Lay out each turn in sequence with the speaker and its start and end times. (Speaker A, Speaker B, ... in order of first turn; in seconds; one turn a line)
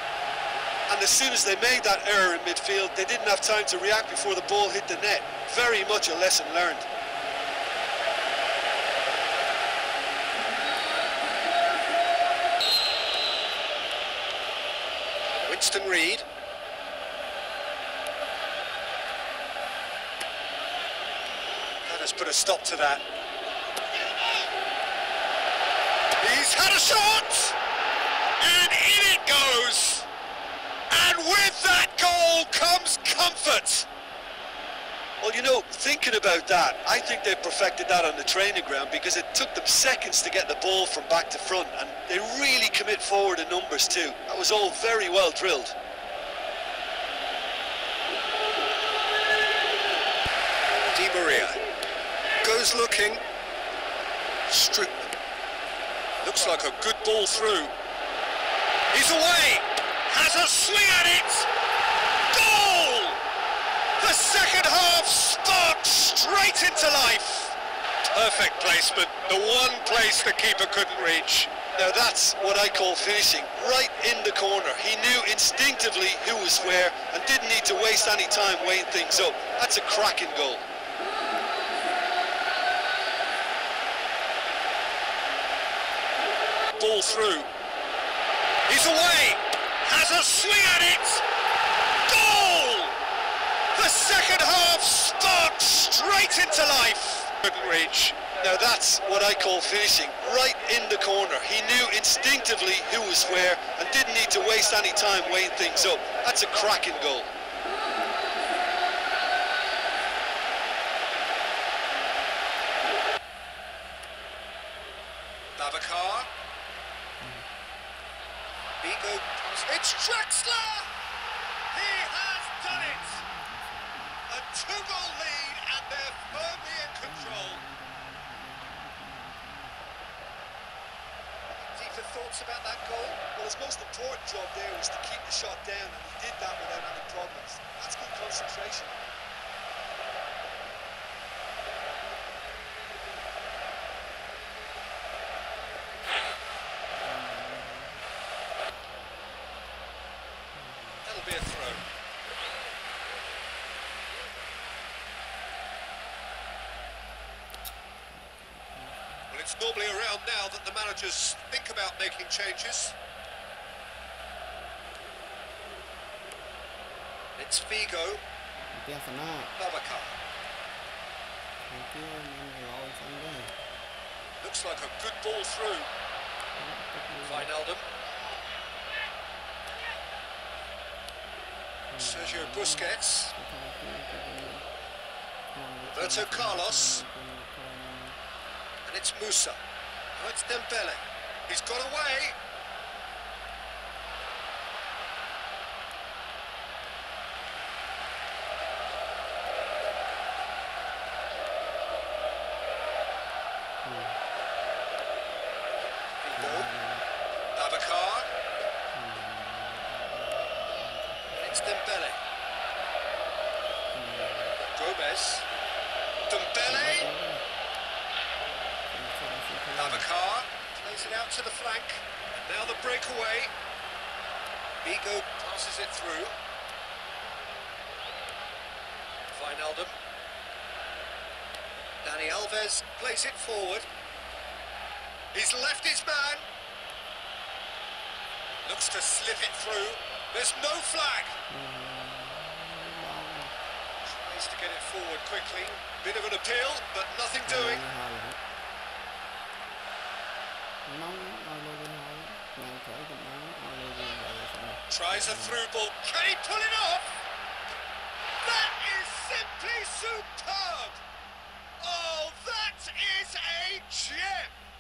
Speaker A: 0.9-6.8
Speaker B: 15.4-16.2
Speaker B: 21.8-23.0
Speaker B: 26.2-27.6
Speaker B: 28.4-30.1
Speaker B: 30.9-33.9
Speaker A: 35.2-45.7
Speaker B: 50.9-51.6
Speaker B: 52.4-53.2
Speaker B: 54.5-55.1
Speaker B: 56.2-57.7
Speaker B: 58.9-61.5
Speaker B: 62.3-63.2
Speaker B: 64.0-67.6
Speaker B: 68.1-71.5
Speaker A: 71.7-80.6
Speaker B: 86.8-87.5
Speaker B: 88.7-91.2
Speaker B: 92.1-92.9
Speaker B: 93.7-98.2
Speaker A: 98.3-107.3
Speaker B: 115.6-116.3
Speaker C: 117.2-117.5
Speaker B: 118.8-120.9
Speaker B: 121.7-123.2
Speaker C: 122.7-124.2
Speaker B: 124.3-127.6
Speaker C: 126.3-129.9
Speaker B: 131.7-133.2
Speaker A: 133.3-139.0
Speaker C: 147.0-148.1
Speaker C: 150.6-151.2
Speaker B: 151.0-151.8
Speaker C: 158.1-159.3
Speaker B: 159.3-162.9
Speaker B: 167.4-168.2
Speaker C: 168.7-169.5
Speaker B: 169.6-170.2
Speaker C: 171.7-173.6
Speaker B: 174.4-175.9
Speaker C: 176.6-177.5
Speaker B: 177.2-177.9
Speaker C: 181.9-184.7
Speaker B: 181.9-183.3
Speaker C: 185.5-188.2
Speaker B: 185.8-187.0
Speaker B: 188.8-189.6
Speaker B: 190.2-192.3
Speaker C: 203.8-204.2
Speaker B: 206.2-206.7
Speaker C: 206.3-207.1
Speaker B: 207.6-208.3
Speaker C: 208.9-211.8
Speaker B: 211.3-212.2
Speaker C: 213.9-214.6
Speaker B: 214.7-215.5
Speaker B: 216.3-217.1
Speaker C: 216.6-217.4
Speaker C: 218.9-220.1
Speaker B: 219.7-223.5
Speaker B: 224.8-226.3
Speaker B: 229.3-229.9
Speaker B: 232.0-233.9
Speaker B: 235.3-236.5
Speaker B: 238.6-241.3
Speaker C: 241.5-243.5
Speaker B: 244.0-247.8
Speaker C: 247.4-248.4
Speaker C: 250.8-255.6
Speaker B: 254.9-257.2
Speaker B: 258.4-261.0
Speaker B: 261.8-264.5